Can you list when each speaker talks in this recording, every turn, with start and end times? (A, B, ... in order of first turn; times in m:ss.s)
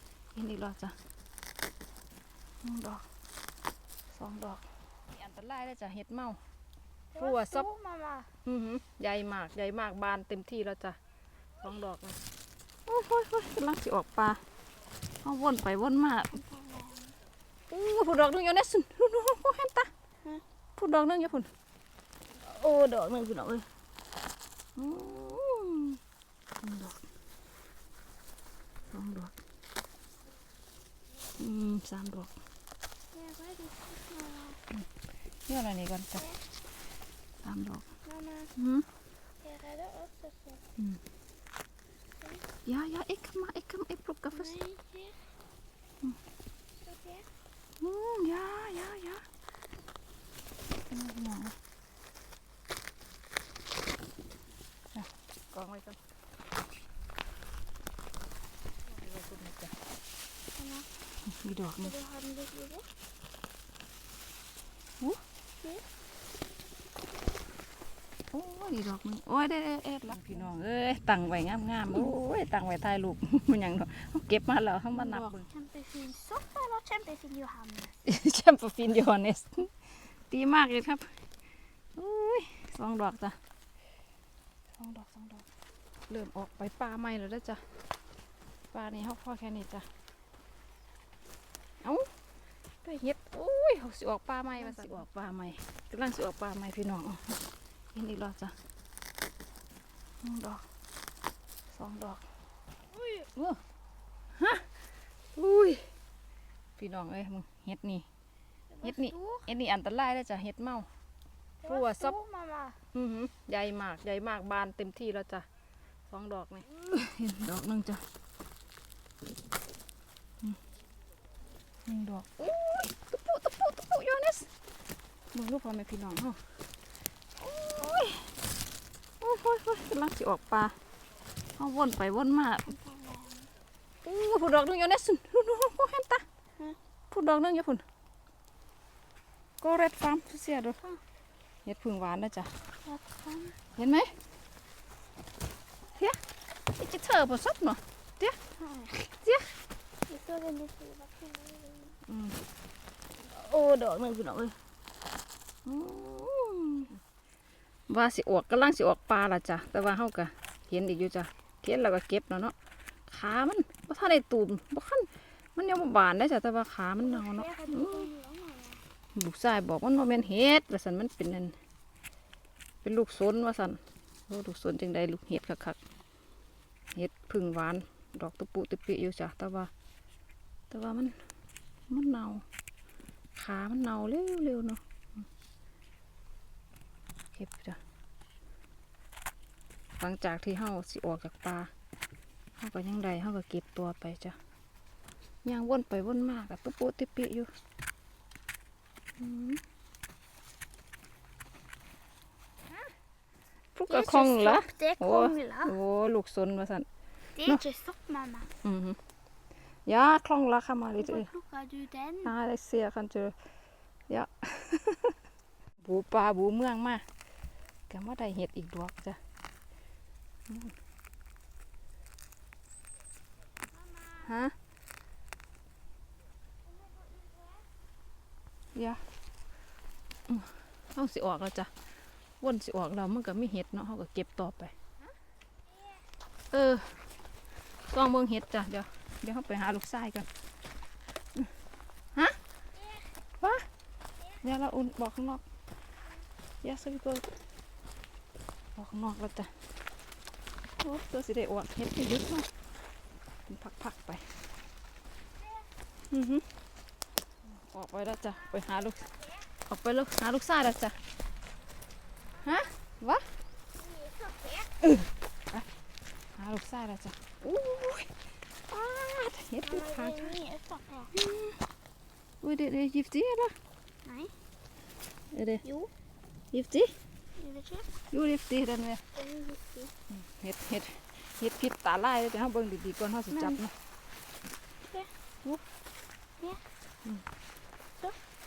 0:00.4-0:01.0 A
0:02.6-0:03.0 A
0:04.1-0:06.4 A
0:07.1-0:08.3 B
0:07.2-0:07.7 A
0:08.4-0:11.0 A
0:11.6-0:12.2 A
0:12.9-0:14.4 A
0:15.2-0:16.3 A
0:16.3-0:17.2 B
0:17.7-0:19.9 A
0:20.8-0:21.5 A
0:22.4-0:23.6 A
0:24.8-0:26.0 A
0:26.6-0:27.0 A
0:28.9-0:29.3 A
0:31.4-0:32.3 A
0:33.1-0:34.6 B
0:35.5-0:36.3 A
0:36.2-0:36.4 B
0:37.4-0:37.9 A
0:38.0-0:38.5 B
0:38.6-0:38.9 A
0:39.4-0:40.6 B
0:42.2-0:42.5 B
0:42.7-0:44.5 A
0:44.3-0:45.2 B
0:46.8-0:47.3 B
0:47.8-0:49.2 A
0:50.9-0:51.6 A
0:55.0-0:56.0 A
0:58.9-0:59.7 A
1:00.6-1:00.9 B
1:01.2-1:01.9 A
1:01.8-1:02.9 B
1:08.3-1:15.5 A
1:14.9-1:18.0 B
1:18.1-1:19.8 A
1:20.3-1:21.2 A
1:22.0-1:23.4 A
1:24.8-1:25.5 A
1:26.1-1:27.6 A
1:28.7-1:29.9 A
1:31.8-1:32.1 A
1:32.8-1:37.4 A
1:34.6-1:35.0 B
1:37.9-1:38.6 A
1:40.2-1:40.6 A
1:41.7-1:42.2 A
1:43.0-1:43.6 A
1:44.4-1:44.7 A
1:45.4-1:45.9 A
1:46.8-1:48.1 A
1:48.7-1:49.5 B
1:48.8-1:50.9 A
1:51.6-1:52.8 B
1:51.6-1:52.2 A
1:52.9-1:55.5 A
1:56.1-1:58.0 A
2:01.9-2:04.5 A
2:05.3-2:06.4 A
2:07.4-2:08.4 A
2:09.2-2:10.8 A
2:11.6-2:12.7 A
2:12.7-2:13.5 B
2:14.0-2:16.2 A
2:17.1-2:17.8 A
2:19.6-2:20.8 A
2:21.7-2:22.5 A
2:22.8-2:23.6 B
2:23.8-2:24.2 A
2:26.7-2:28.4 A
2:28.6-2:29.1 B
2:29.2-2:29.5 A
2:30.1-2:32.0 B
2:32.1-2:32.4 A
2:33.4-2:34.5 A
2:35.7-2:37.0 A
2:37.9-2:42.6 A
2:43.1-2:48.1 A
2:47.0-2:48.8 B
2:49.2-2:51.6 A
2:52.8-2:55.8 A
2:56.9-2:59.7 A
3:00.7-3:01.2 A
3:01.9-3:02.4 A
3:03.4-3:04.8 A
3:07.3-3:07.8 A
3:10.0-3:11.7 A
3:12.6-3:14.4 A
3:15.4-3:17.5 A
3:19.2-3:19.6 A
3:23.8-3:26.9 A
3:23.9-3:25.8 B
3:27.4-3:28.5 B
3:28.6-3:29.0 A
3:29.9-3:31.3 A
3:31.0-3:32.3 B
3:32.2-3:33.4 A
3:34.1-3:35.2 A
3:35.8-3:37.0 A
3:37.9-3:39.2 A
3:40.5-3:40.8 A
3:43.8-3:44.3 B
3:44.2-3:44.6 A
3:46.7-3:47.7 B
3:48.8-3:49.0 A
3:50.3-3:51.7 A
3:52.4-3:54.8 A
3:56.5-3:57.0 A
3:57.9-4:00.3 A
4:02.8-4:03.0 B
4:03.4-4:03.7 A
4:04.4-4:05.4 A
4:06.6-4:07.3 A
4:08.8-4:09.5 A
4:10.8-4:12.5 A
4:13.5-4:14.2 A
4:16.1-4:16.4 A
4:17.6-4:21.0 A
4:22.4-4:23.2 A
4:23.7-4:24.7 B
4:24.8-4:25.7 A
4:26.4-4:28.1 A
4:28.7-4:30.3 A
4:29.6-4:31.1 B
4:31.1-4:31.6 A
4:32.4-4:33.5 A
4:34.0-4:34.3 B
4:35.3-4:35.6 A
4:35.6-4:35.9 B
4:36.5-4:37.0 A
4:37.4-4:37.9 B
4:38.1-4:39.0 A
4:39.1-4:39.9 B
4:40.1-4:43.7 A
4:43.3-4:43.6 B